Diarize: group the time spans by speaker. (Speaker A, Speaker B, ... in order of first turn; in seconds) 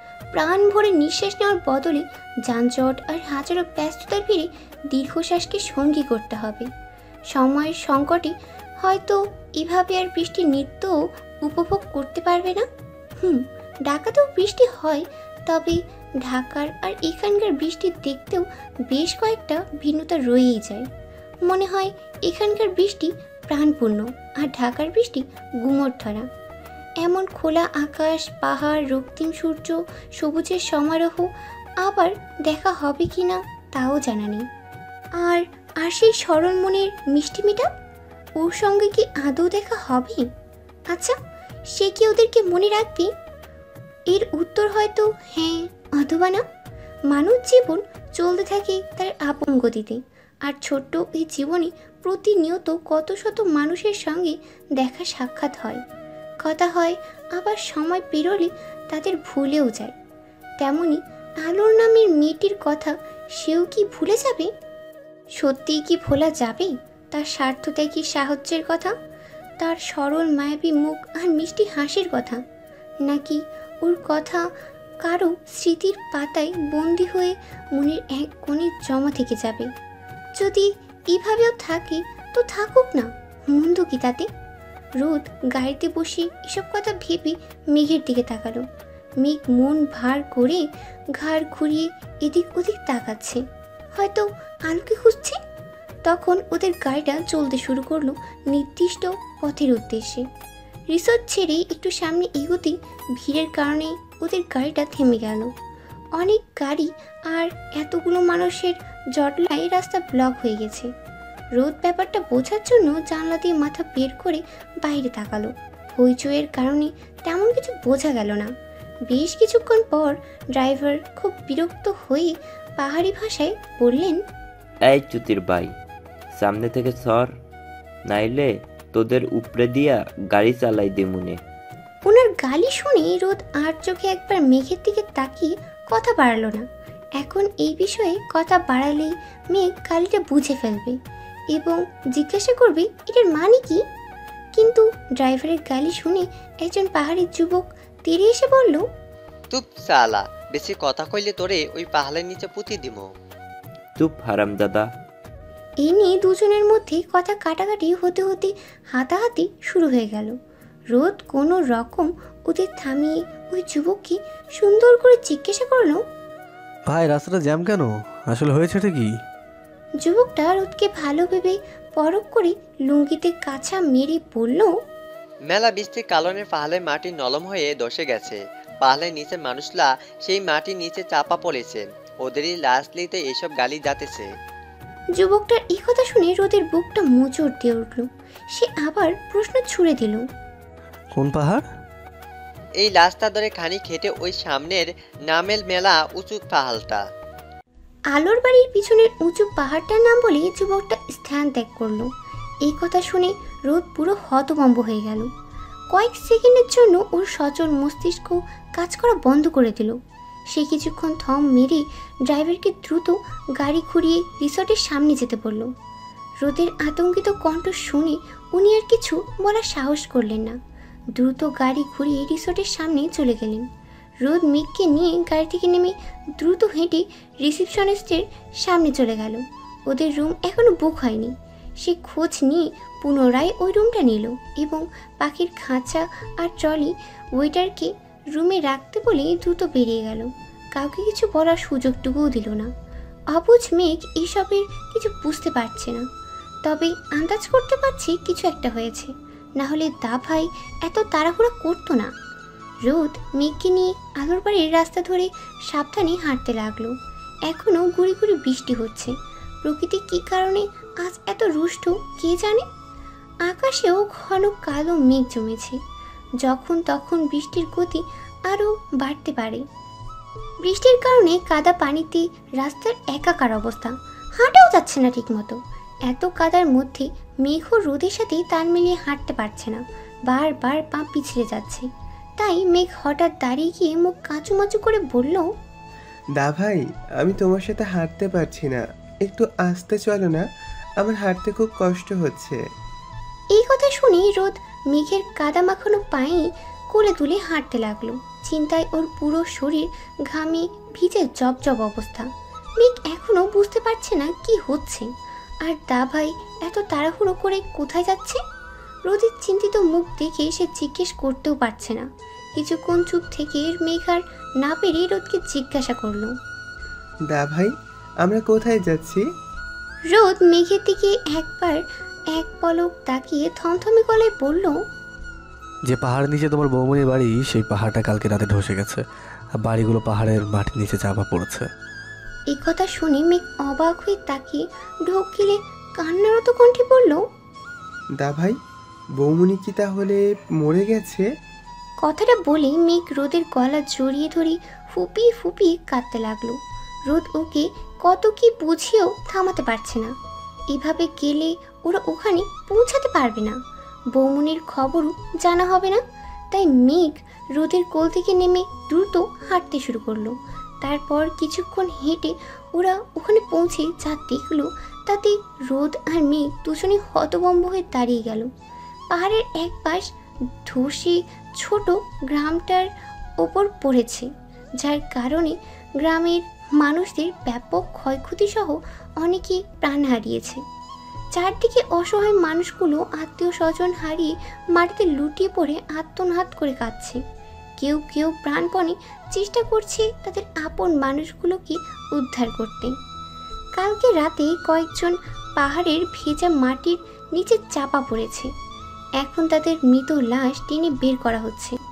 Speaker A: 0.3-6.7, 7.3-12.7, 13.2-20.9, 21.4-26.3, 27.0-31.3, 31.8-34.4, 35.2-37.7, 38.4-40.3, 41.7-43.1, 44.1-46.4, 47.1-55.8, 56.4-59.9, 60.6-64.5, 65.4-68.9, 69.6-72.4, 73.0-74.5, 75.0-79.7, 80.4-84.3, 85.0-88.6, 89.2-90.6, 91.1-93.4, 94.0-95.4, 96.0-100.2, 100.9-105.5, 106.2-110.9, 111.5-118.5, 119.1-124.2, 132.1-136.6, 137.2-140.9, 141.5-143.8, 144.6-148.8, 155.8-160.3, 160.9-166.0, 170.0-174.7, 185.2-190.2, 198.1-202.1, 202.6-205.3, 205.9-210.0, 210.5-215.7, 216.4-220.6, 221.2-223.7, 224.2-242.7, 243.3-246.0, 246.7-252.1, 252.8-256.9, 257.5-259.1, 259.6-262.6, 263.4-265.8, 266.4-269.6, 270.6-281.9, 282.4-285.4, 293.5-305.1, 305.6-308.4, 309.1-316.3, 320.1-321.8, 322.3-324.7, 332.5-337.2, 342.0-350.1, 350.7-353.6, 354.1-368.5, 369.1-370.1, 370.6-372.9, 373.4-380.6, 381.3-387.2, 387.8-392.9, 393.8-398.5, 399.2-401.8
Speaker B: 124.8-125.7, 126.3-127.3, 128.1-131.4, 154.0-154.9
Speaker C: 149.5-153.1, 175.4-184.3, 192.8-197.0
Speaker D: 166.8-169.1, 191.1-191.6, 325.9-329.0, 329.5-331.7
Speaker E: 286.4-290.4, 291.0-292.6, 317.3-317.7, 318.2-319.2, 338.2-338.6, 339.2-341.2